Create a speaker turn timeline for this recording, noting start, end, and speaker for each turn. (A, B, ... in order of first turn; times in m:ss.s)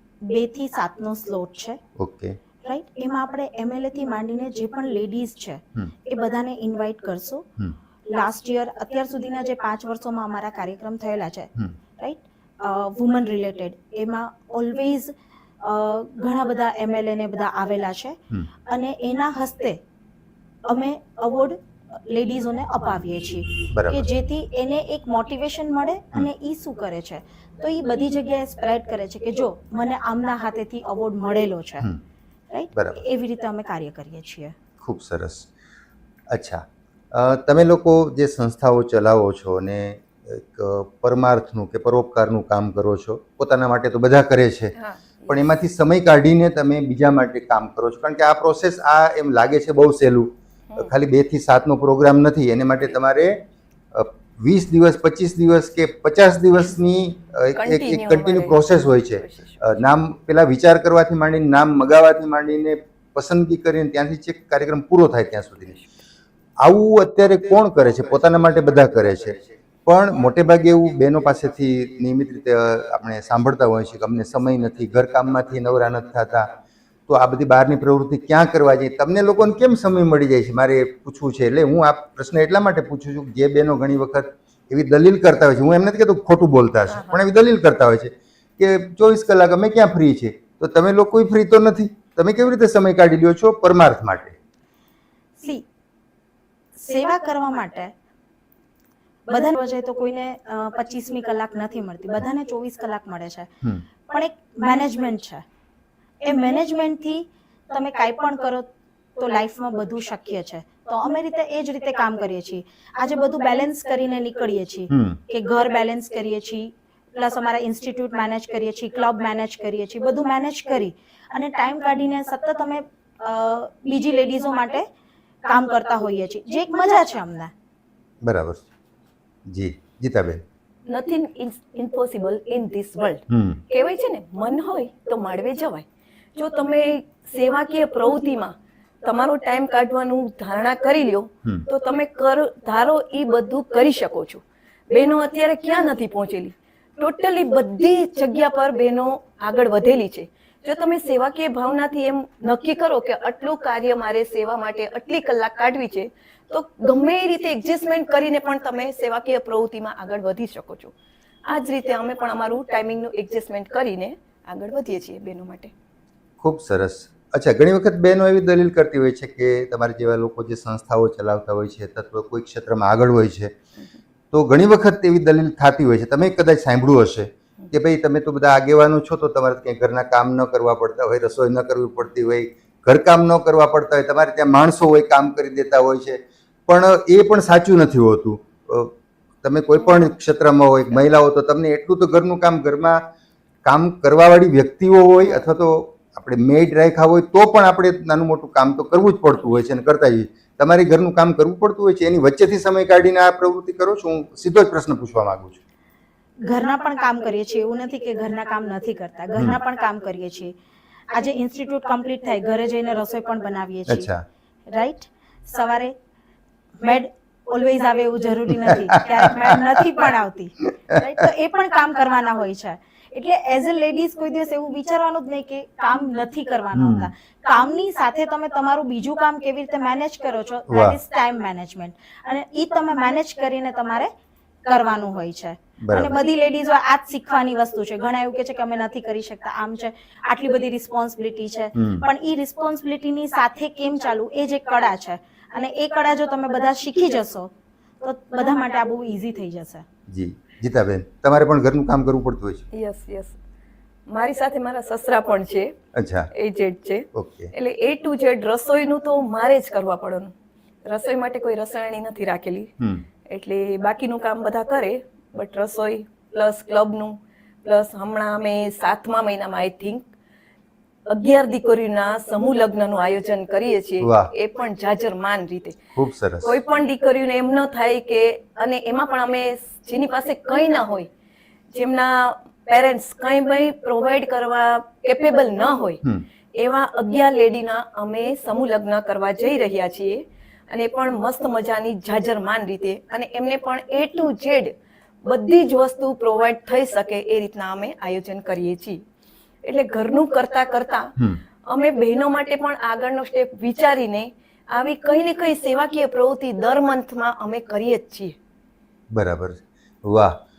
0:00.2-0:01.8 A
0:02.0-0:02.4 B
0:02.6-0:07.4 A
0:08.1-0:19.8 A
0:20.6-0:31.9 A
0:23.7-0:24.1 B
0:32.5-0:34.5 A
0:32.8-0:33.0 B
0:34.8-0:35.5 B
0:36.3-0:44.7 B
0:44.8-0:45.5 C
0:45.3-0:53.4 B
0:53.9-1:05.8 B
0:57.6-0:59.8 C
1:06.6-1:16.5 B
1:17.1-1:34.4 B
1:26.9-1:27.2 C
1:35.4-1:35.6 A
1:36.7-1:37.9 A
1:39.3-1:43.5 A
1:44.1-1:45.4 A
1:46.2-2:04.8 A
1:54.9-1:55.2 B
2:05.4-2:07.5 A
2:08.2-2:08.6 B
2:09.5-2:10.4 B
2:10.9-2:40.9 C
2:13.3-2:13.6 B
2:41.4-2:45.7 C
2:46.4-2:53.5 B
2:54.3-3:13.0 B
3:13.6-3:25.6 B
3:26.4-3:30.5 A
3:31.1-3:34.1 A
3:33.9-3:34.2 B
3:34.7-3:35.9 A
3:36.8-3:54.1 A
3:46.7-3:47.1 B
3:50.7-3:51.0 B
3:54.6-4:09.8 A
3:55.8-3:56.2 B
4:01.8-4:02.1 B
4:10.1-4:12.6 B
4:12.7-4:13.4 C
4:14.1-4:15.7 C
4:15.9-4:16.3 B
4:16.3-4:20.3 C
4:17.1-4:17.5 B
4:20.8-4:22.7 C
4:22.8-4:23.0 B
4:23.2-4:30.0 C
4:31.1-4:35.8 C
4:34.0-4:34.3 B
4:36.0-4:36.5 B
4:36.4-4:41.1 C
4:41.7-4:46.0 C
4:46.5-4:54.7 C
4:55.2-4:59.0 C
4:59.6-5:01.1 C
5:01.6-5:08.3 C
5:09.1-5:10.4 B